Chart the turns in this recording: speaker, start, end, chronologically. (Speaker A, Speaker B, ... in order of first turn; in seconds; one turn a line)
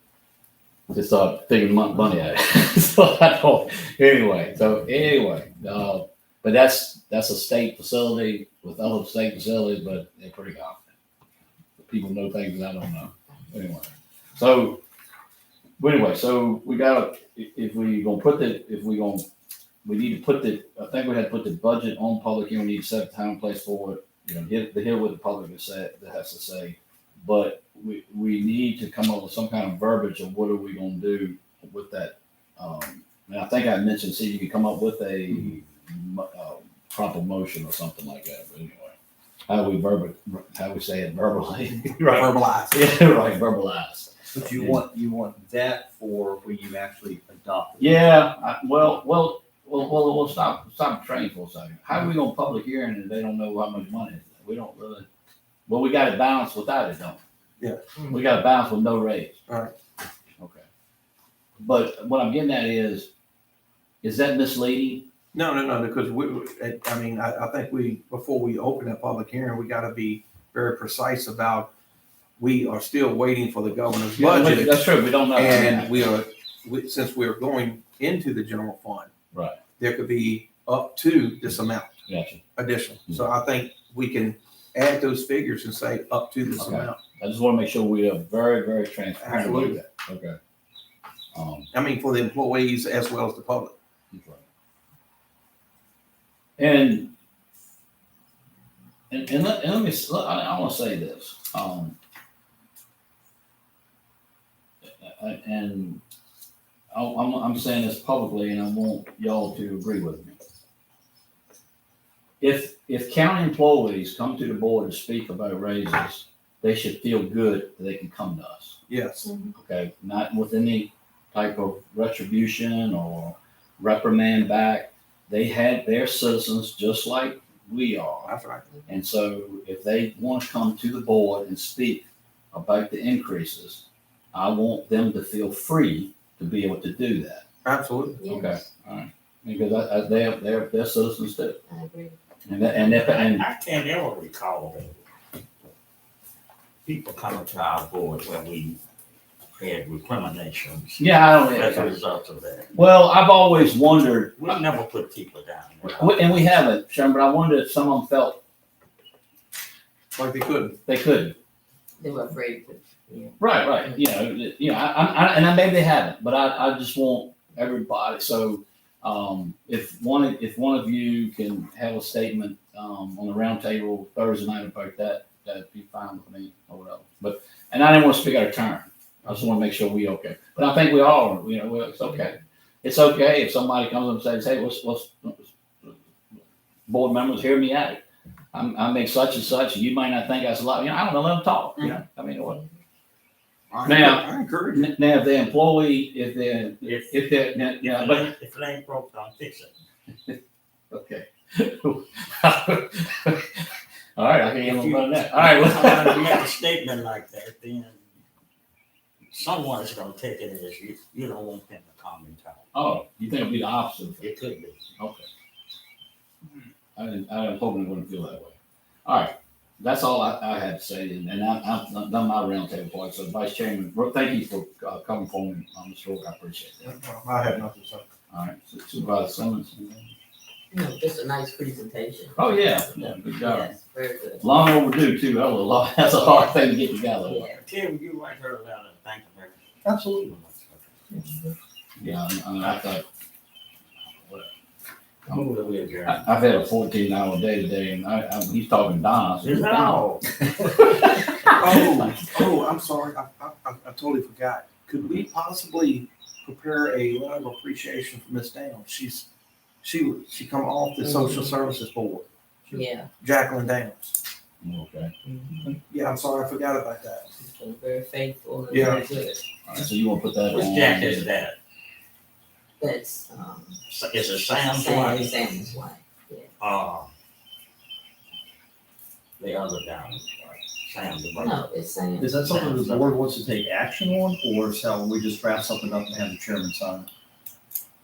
Speaker A: 0.9-10.8
Speaker A: 11.8-14.8
Speaker A: 15.8-19.3
Speaker A: 19.8-39.0
Speaker A: 39.5-44.8
Speaker B: 42.0-42.9
Speaker C: 44.3-48.2
Speaker A: 47.8-55.1
Speaker A: 55.7-57.2
Speaker B: 57.6-58.0
Speaker A: 58.1-59.4
Speaker B: 59.5-59.7
Speaker A: 60.4-60.7
Speaker A: 61.6-63.1
Speaker A: 64.0-65.1
Speaker B: 65.3-71.7
Speaker B: 72.4-79.1
Speaker A: 74.2-76.1
Speaker A: 79.3-79.6
Speaker B: 79.8-82.0
Speaker A: 82.1-82.4
Speaker B: 82.6-87.0
Speaker A: 86.6-90.4
Speaker B: 89.2-89.8
Speaker A: 91.3-91.7
Speaker B: 91.7-93.7
Speaker A: 94.1-94.4
Speaker A: 96.6-97.1
Speaker A: 99.1-102.0
Speaker A: 105.0-106.0
Speaker A: 106.9-110.4
Speaker A: 112.4-118.8
Speaker B: 118.9-119.3
Speaker D: 119.2-119.5
Speaker A: 119.5-128.3
Speaker B: 128.3-128.7
Speaker A: 128.9-137.4
Speaker B: 137.6-138.2
Speaker D: 138.2-138.6
Speaker A: 138.2-141.6
Speaker D: 141.7-142.2
Speaker A: 142.5-143.4
Speaker E: 142.9-145.0
Speaker E: 146.9-148.8
Speaker E: 149.6-152.7
Speaker A: 151.0-151.9
Speaker A: 152.7-154.6
Speaker E: 154.4-156.3
Speaker A: 155.8-158.4
Speaker B: 160.1-160.8
Speaker A: 160.9-161.4
Speaker D: 162.0-164.0
Speaker A: 163.4-186.0
Speaker A: 186.9-188.0
Speaker A: 188.5-192.6
Speaker B: 193.7-194.9
Speaker A: 193.8-198.3
Speaker E: 196.8-197.1
Speaker E: 197.9-199.7
Speaker A: 200.9-206.4
Speaker E: 204.7-208.0
Speaker E: 209.3-212.7
Speaker A: 212.7-214.2
Speaker E: 214.2-214.8
Speaker A: 215.0-215.3
Speaker A: 217.0-218.6
Speaker A: 219.1-227.0
Speaker B: 226.8-228.1
Speaker A: 228.3-230.1
Speaker D: 230.7-234.6
Speaker A: 232.4-233.8
Speaker A: 234.4-237.5
Speaker D: 236.0-236.6
Speaker D: 237.2-237.6
Speaker E: 237.6-241.1
Speaker C: 239.9-240.4
Speaker D: 241.1-241.6
Speaker A: 242.0-243.0
Speaker A: 244.2-244.5
Speaker E: 245.3-246.3
Speaker A: 246.1-252.2
Speaker E: 249.4-250.3
Speaker B: 251.5-259.3
Speaker B: 259.8-264.2
Speaker D: 261.0-261.6
Speaker D: 262.7-263.1
Speaker A: 264.6-265.1
Speaker D: 265.2-265.7
Speaker B: 265.8-267.3
Speaker D: 267.4-269.4
Speaker B: 268.7-269.0
Speaker A: 269.7-271.3
Speaker E: 270.5-271.6
Speaker D: 272.8-273.8
Speaker E: 273.9-275.4
Speaker D: 274.7-276.5
Speaker E: 276.6-277.1
Speaker E: 279.4-281.7
Speaker D: 281.4-282.7
Speaker C: 282.2-287.1
Speaker E: 282.6-283.1